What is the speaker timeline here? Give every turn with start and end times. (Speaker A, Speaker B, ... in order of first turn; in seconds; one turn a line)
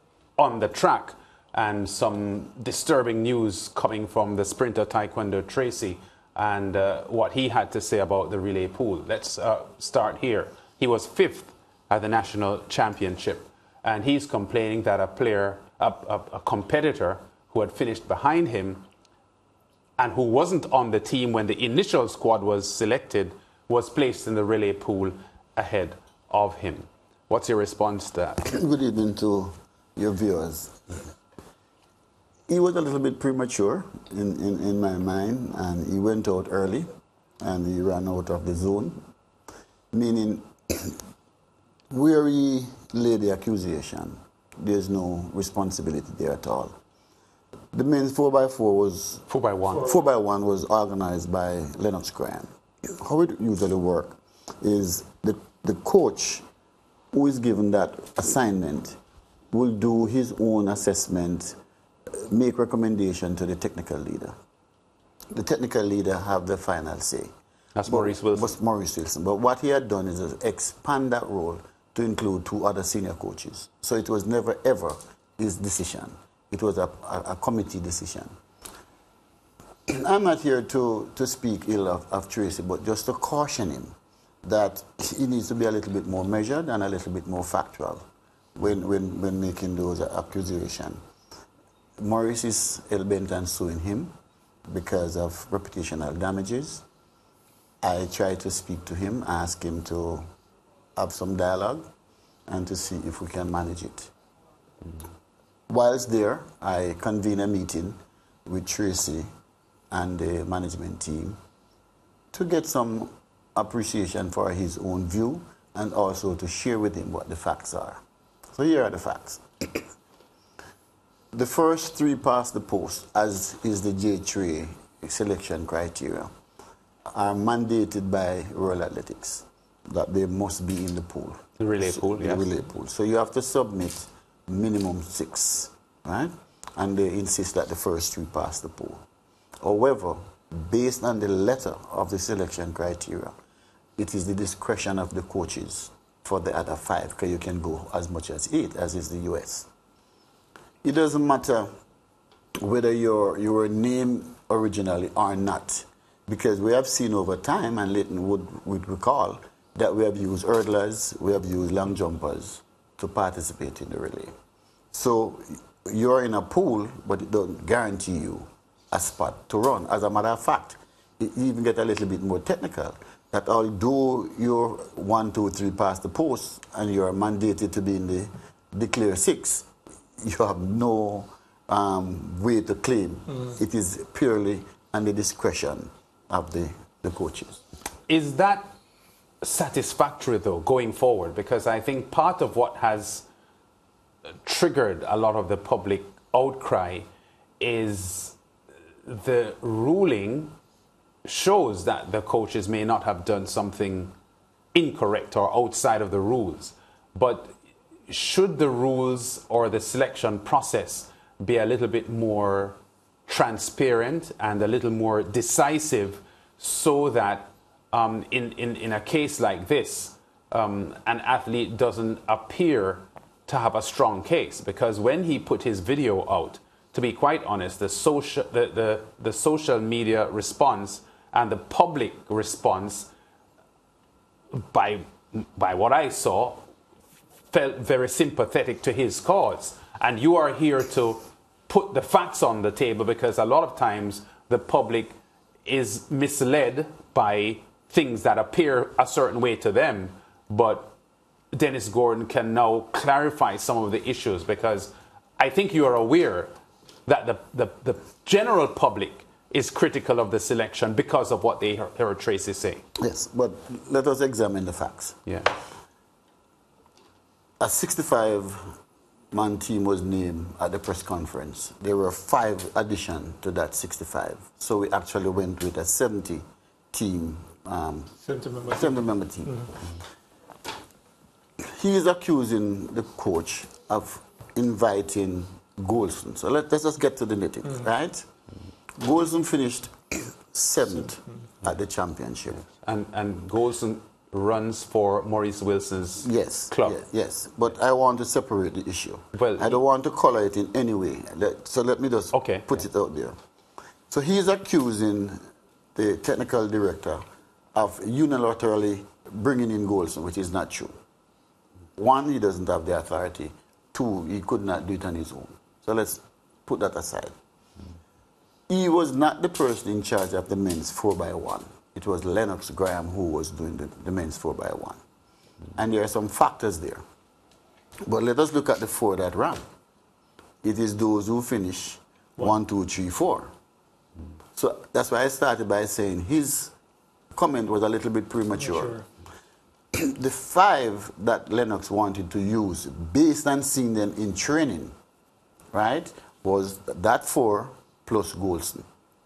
Speaker A: 0.4-18.8
Speaker A: 20.0-28.4
Speaker B: 28.4-31.0
Speaker B: 32.5-36.9
Speaker B: 37.4-39.0
Speaker B: 39.9-41.0
Speaker B: 41.9-46.8
Speaker B: 47.7-49.2
Speaker A: 49.3-49.9
Speaker B: 49.8-52.5
Speaker B: 53.0-56.4
Speaker B: 57.1-59.0
Speaker B: 59.5-61.6
Speaker B: 62.1-64.3
Speaker B: 65.3-67.3
Speaker A: 67.8-68.6
Speaker B: 67.9-78.3
Speaker B: 79.9-88.0
Speaker B: 88.6-91.0
Speaker B: 92.0-94.1
Speaker B: 94.7-96.8
Speaker B: 97.8-100.3
Speaker B: 101.0-101.9
Speaker B: 102.5-104.1
Speaker B: 105.7-109.3
Speaker B: 109.9-111.4
Speaker B: 112.3-118.0
Speaker B: 118.5-119.8
Speaker B: 121.3-126.3
Speaker B: 127.1-139.0
Speaker A: 131.6-132.5
Speaker B: 139.6-143.3
Speaker B: 144.0-149.7
Speaker B: 150.8-151.7
Speaker B: 152.6-164.3
Speaker B: 164.9-179.7
Speaker B: 180.2-187.6
Speaker A: 188.1-188.7
Speaker A: 189.4-193.3
Speaker A: 194.4-197.1
Speaker A: 197.6-198.4
Speaker A: 199.1-200.5
Speaker A: 201.2-204.1
Speaker A: 204.7-207.5
Speaker A: 208.1-233.1
Speaker A: 234.5-236.6
Speaker A: 237.5-250.9
Speaker A: 251.5-256.5
Speaker A: 257.1-262.8
Speaker B: 263.0-265.2
Speaker A: 265.3-265.5
Speaker B: 267.6-268.7
Speaker B: 269.3-278.1
Speaker C: 278.2-279.7
Speaker B: 278.7-279.7
Speaker B: 281.6-288.2
Speaker B: 289.0-292.6
Speaker A: 292.8-297.0
Speaker B: 296.2-303.4
Speaker A: 299.3-299.8
Speaker A: 302.3-302.8
Speaker B: 304.1-305.4
Speaker B: 305.9-307.2
Speaker B: 307.7-310.9
Speaker B: 312.0-317.3
Speaker B: 318.7-325.0
Speaker B: 325.8-327.0
Speaker B: 328.1-329.6
Speaker B: 330.6-333.5
Speaker B: 334.6-336.7
Speaker B: 337.3-338.9
Speaker C: 338.6-339.1
Speaker B: 339.9-344.9
Speaker B: 345.7-348.8